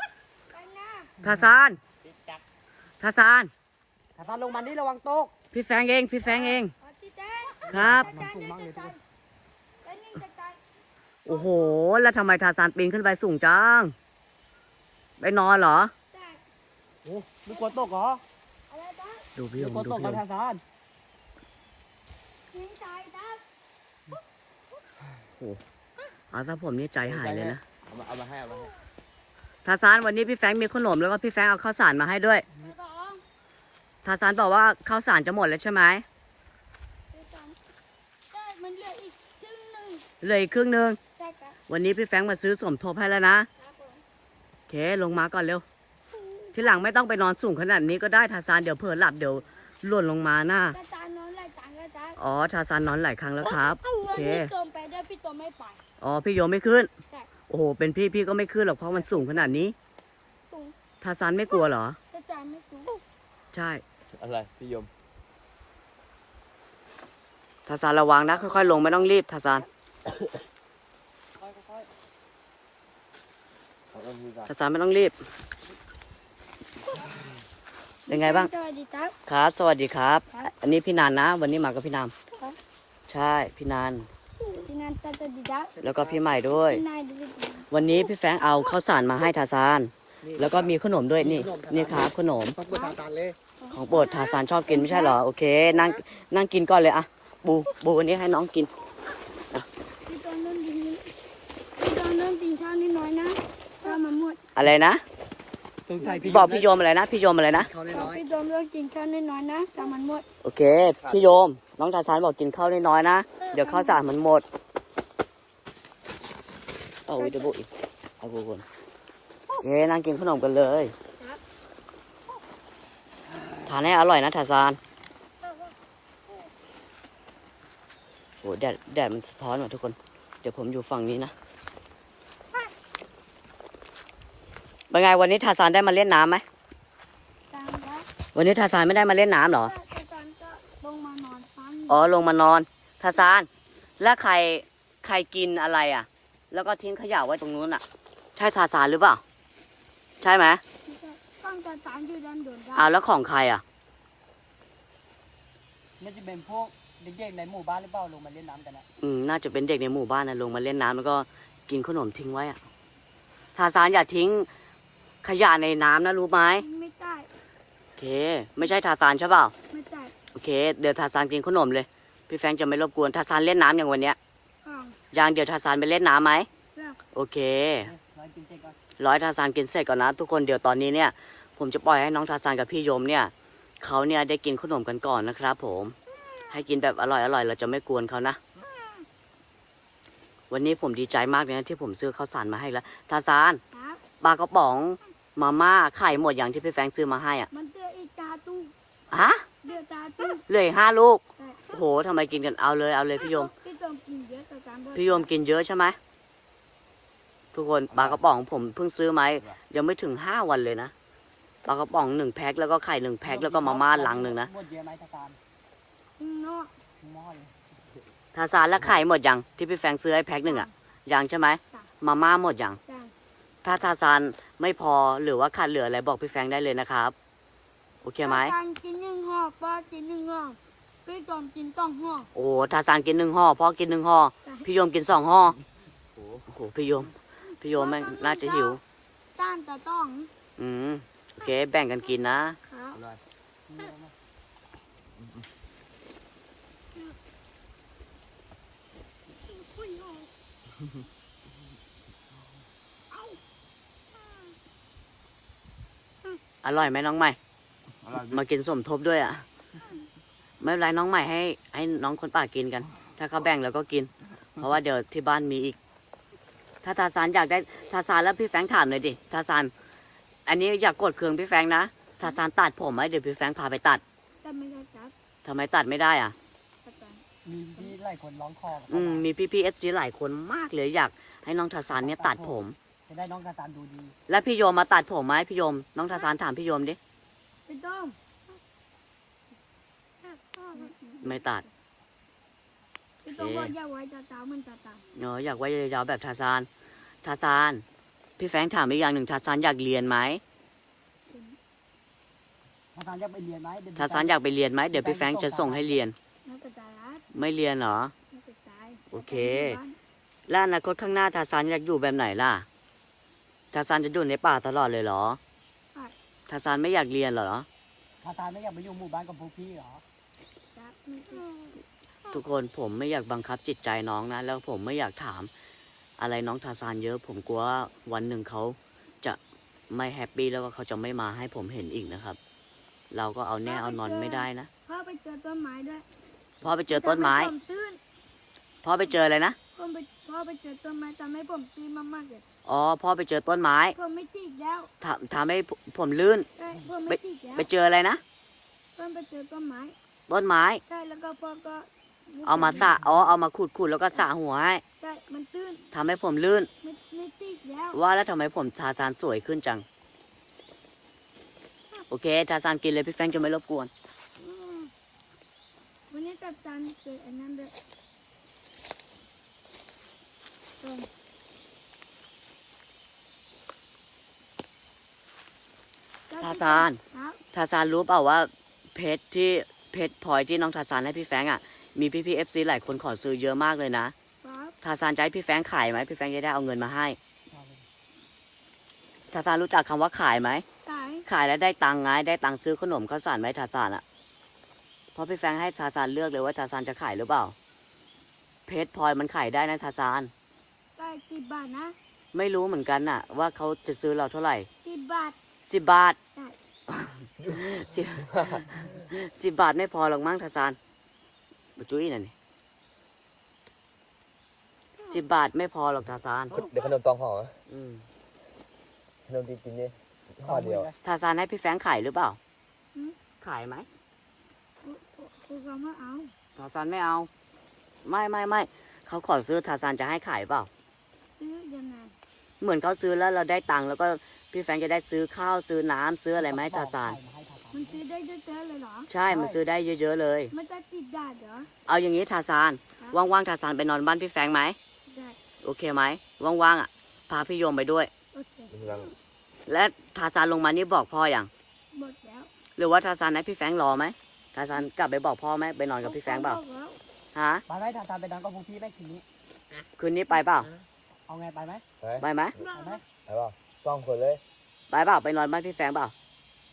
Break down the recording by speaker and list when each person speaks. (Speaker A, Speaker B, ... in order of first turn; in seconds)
Speaker A: 0.5-1.1, 6.3-9.0, 9.8-10.6, 11.2-11.8, 16.1-16.4, 17.5-17.8, 18.7-19.2, 22.5-23.4, 32.5-33.2, 37.1-37.6, 38.3-40.1, 41.2-41.6, 43.6-44.0, 46.1-46.5, 50.7-52.2, 53.8-55.8, 60.5-60.8, 62.1-63.0, 78.1-79.1, 84.4-85.7, 86.5-87.7, 92.7-93.0, 93.6-95.2, 100.0-101.1, 101.8-104.4, 106.0-106.5, 107.9-110.2, 113.5-114.0, 117.2-117.5, 125.4-125.7, 137.5-138.1, 139.6-142.0, 150.8-152.9, 166.6-167.3, 169.7-170.1, 174.6-175.0, 176.7-177.0, 188.6-189.0, 193.7-194.0, 197.5-198.7, 199.6-200.4, 201.4-201.8, 203.2-205.3, 216.2-216.7, 220.4-220.7, 228.2-232.3, 237.6-238.8, 239.3-240.3, 242.7-243.0, 249.4-250.3, 274.4-275.1, 276.8-277.2, 287.7-288.2, 290.2-291.6, 293.2-295.0, 301.3-301.6, 306.4-307.2, 308.3-309.9, 320.8-321.8, 333.6-336.0, 336.9-338.0, 339.8-342.4, 343.9-344.9, 346.6-347.7, 349.0-349.9, 350.9-352.9, 355.0-355.9, 356.8-358.0, 364.4-364.9, 366.1-367.7, 370.8-371.1, 376.3-377.4, 384.4-384.7, 390.8-391.2, 401.0-401.9, 404.8-405.4, 424.8-426.3, 431.4-432.1, 437.7-439.1, 440.5-441.7, 445.1-445.4, 448.3-449.1, 451.9-452.5, 456.0-457.0, 462.6-463.0
Speaker B: 1.2-1.8, 3.0-3.5, 5.5-6.7, 7.7-8.1, 11.2-13.9, 15.2-15.9, 19.4-20.2, 26.3-27.6, 29.6-32.4, 34.0-36.0, 40.2-41.0, 41.7-43.5, 44.7-45.6, 46.5-50.8, 52.2-54.5, 56.0-56.9, 57.5-59.8, 61.0-62.0, 63.5-63.8, 67.7-69.7, 74.5-75.2, 78.1-78.5, 79.3-82.1, 83.1-84.1, 85.8-86.8, 87.7-92.6, 93.7-98.7, 104.5-105.0, 106.3-107.7, 110.4-114.4, 117.1-117.7, 118.2-118.6, 119.6-120.9, 123.6-124.8, 128.4-131.3, 134.9-136.4, 138.3-139.7, 141.9-143.5, 144.0-147.8, 148.3-149.2, 150.2-150.6, 152.8-153.6, 159.0-162.6, 163.5-164.5, 165.2-166.7, 168.0-169.5, 170.3-174.2, 175.1-176.5, 177.1-177.9, 179.0-185.9, 186.5-188.4, 190.5-193.6, 194.2-197.5, 199.1-199.4, 200.5-203.5, 204.9-206.0, 207.5-210.9, 211.6-214.5, 218.3-222.8, 223.6-227.1, 228.0-228.6, 232.3-235.6, 236.5-238.8, 240.6-242.6, 256.6-257.4, 258.3-259.4, 260.6-265.8, 266.8-269.7, 270.5-274.0, 275.4-276.3, 278.9-282.8, 284.3-287.0, 291.2-291.6, 293.4-293.7, 295.1-296.7, 297.2-297.8, 298.4-300.4, 303.9-306.1, 307.3-308.1, 309.1-309.8, 310.5-312.6, 313.7-315.4, 316.5-317.7, 322.3-325.5, 326.2-329.4, 329.9-332.4, 333.1-334.7, 336.6-337.5, 338.8-339.6, 342.6-344.0, 345.0-346.5, 347.1-348.2, 350.3-350.8, 352.4-354.8, 355.9-356.7, 357.9-359.9, 362.1-363.9, 376.4-377.0, 377.5-384.1, 384.8-387.2, 389.3-390.6, 391.2-394.0, 395.1-397.5, 398.7-400.3, 402.3-404.7, 405.6-406.2, 406.9-410.8, 411.8-412.3, 415.1-416.5, 417.7-418.1, 421.0-422.4, 423.4-423.9, 426.6-427.3, 428.0-430.7, 432.6-437.2, 439.1-440.5, 441.9-444.8, 445.6-448.1, 449.7-451.5, 452.8-456.6, 457.3-457.6, 460.0-460.7, 462.2-462.6, 464.9-466.1
Speaker C: 4.2-5.3, 7.7-9.0, 17.0-18.2, 19.6-20.6, 71.4-71.8, 85.8-86.3, 90.2-93.3, 105.9-106.7, 107.6-108.2, 156.0-158.8, 177.8-178.8, 213.2-215.4, 217.0-217.5, 243.7-244.1, 277.4-279.2, 282.0-282.6, 283.1-284.1, 302.9-304.4, 304.9-306.0, 318.2-320.0, 387.5-387.8, 420.4-420.9, 436.4-438.0, 439.3-439.6, 457.7-459.2, 461.3-461.8, 462.7-463.0
Speaker D: 27.0-28.7, 64.1-64.9, 73.9-74.5, 207.9-208.2, 236.2-236.4, 242.9-243.2, 258.0-258.4, 407.4-407.6, 408.3-408.6, 416.5-417.6, 419.3-420.9, 448.7-449.1, 462.0-462.2, 463.3-464.4